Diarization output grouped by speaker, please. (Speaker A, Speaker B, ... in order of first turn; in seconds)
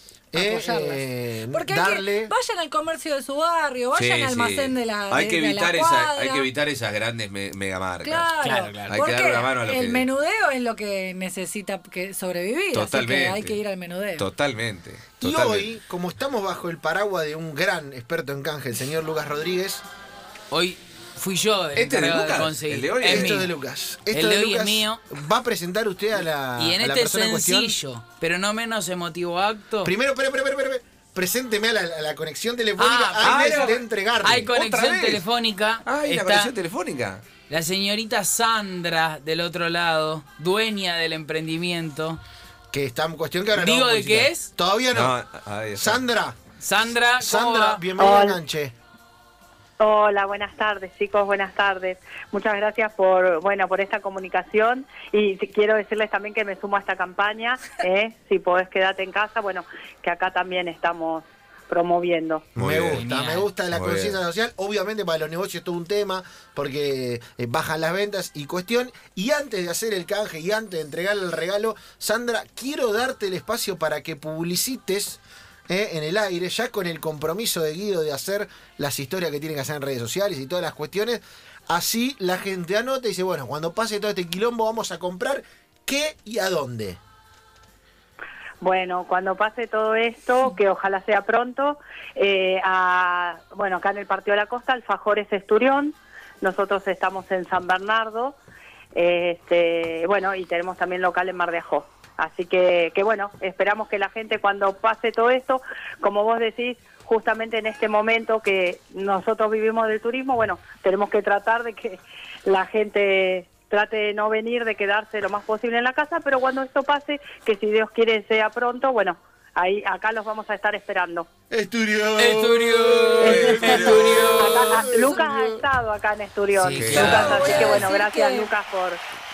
Speaker A: 0.3-2.3, 15.2-19.8, 23.0-27.8, 29.8-34.5, 42.7-45.1, 45.7-46.4, 47.2-48.7, 62.5-87.0, 121.5-125.4
Speaker B: 0.3-6.5, 8.0-14.3, 127.3-128.5
Speaker C: 3.9-10.1, 12.7-13.6, 14.2-15.7, 21.7-23.4, 33.2-33.8, 34.5-35.2, 35.8-37.2, 44.9-46.0, 62.5-63.0, 63.6-64.2, 123.3-124.3, 126.8-127.5
Speaker D: 8.4-8.9, 20.5-23.5, 24.1-25.0, 26.4-29.9, 32.8-36.5, 37.4-42.2, 43.5-44.5, 46.6-47.8, 62.9-63.5, 122.2-124.8, 126.5-128.0
Speaker E: 48.0-48.4, 49.8-62.4, 88.6-98.3, 98.9-121.3, 123.2-129.0